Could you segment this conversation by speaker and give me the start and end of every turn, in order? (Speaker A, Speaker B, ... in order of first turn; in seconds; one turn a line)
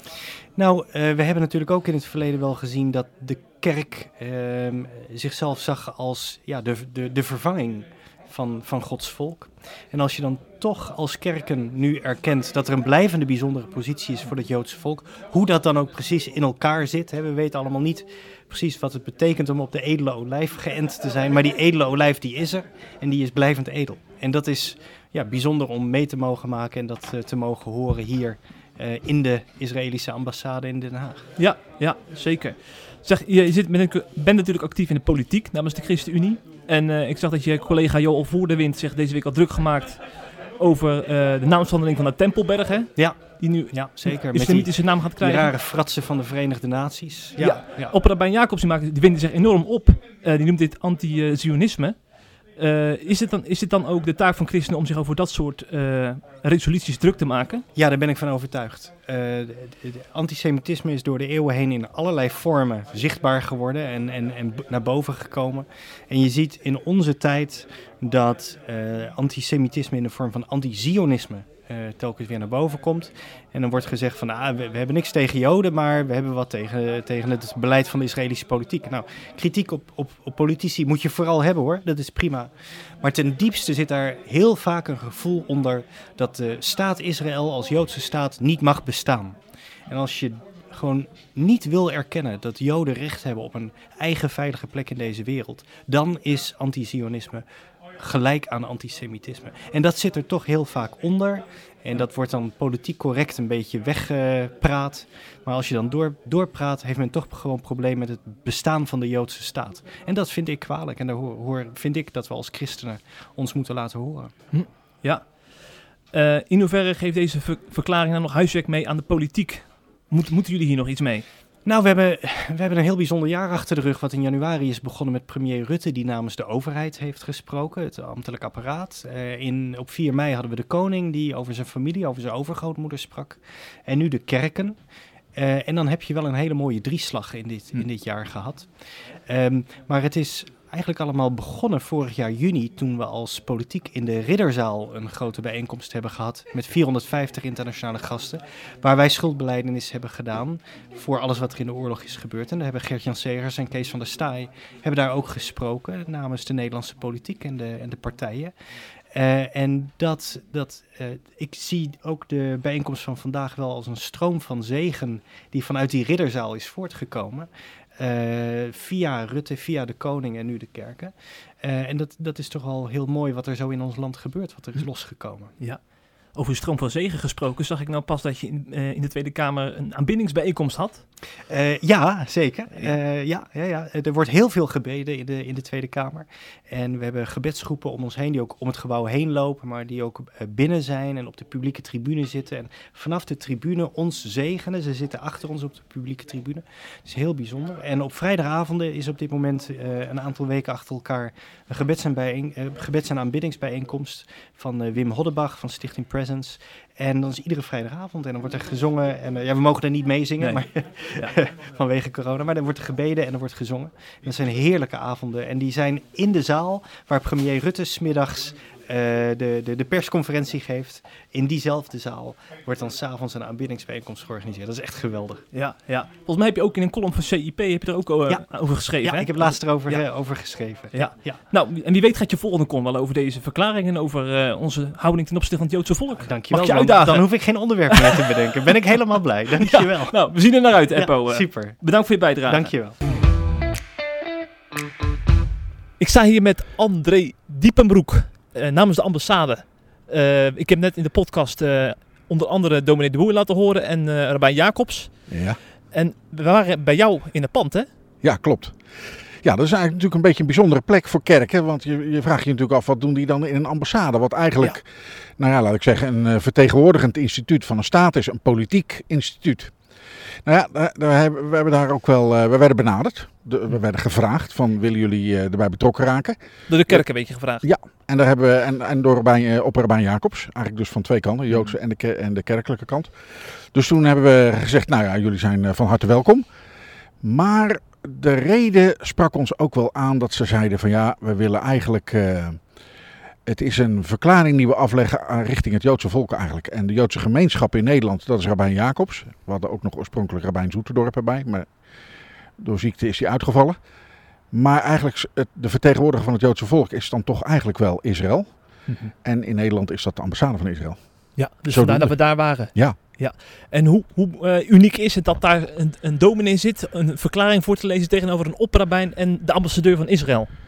Speaker A: 0.6-31.3
Speaker B: 31.4-45.5
Speaker A: 43.0-48.0
Speaker B: 47.4-57.6
Speaker A: 57.8-97.5
Speaker A: 98.0-114.3
Speaker B: 114.5-121.3
Speaker A: 121.7-134.8
Speaker A: 135.3-158.5
Speaker A: 159.1-175.5
Speaker B: 175.6-181.1
Speaker A: 181.5-225.4
Speaker B: 210.4-211.3
Speaker B: 225.5-230.4
Speaker A: 228.3-231.4
Speaker B: 230.9-238.3
Speaker A: 236.2-243.0
Speaker B: 239.6-242.9
Speaker B: 246.0-257.9
Speaker C: 255.3-255.6
Speaker C: 258.2-258.9
Speaker C: 259.4-264.9
Speaker C: 265.4-269.8
Speaker C: 270.4-276.4
Speaker B: 276.7-277.6
Speaker C: 277.6-286.5
Speaker C: 287.2-292.6
Speaker C: 293.5-301.8
Speaker C: 302.6-303.8
Speaker C: 304.5-313.0
Speaker B: 308.9-309.1
Speaker B: 311.4-320.5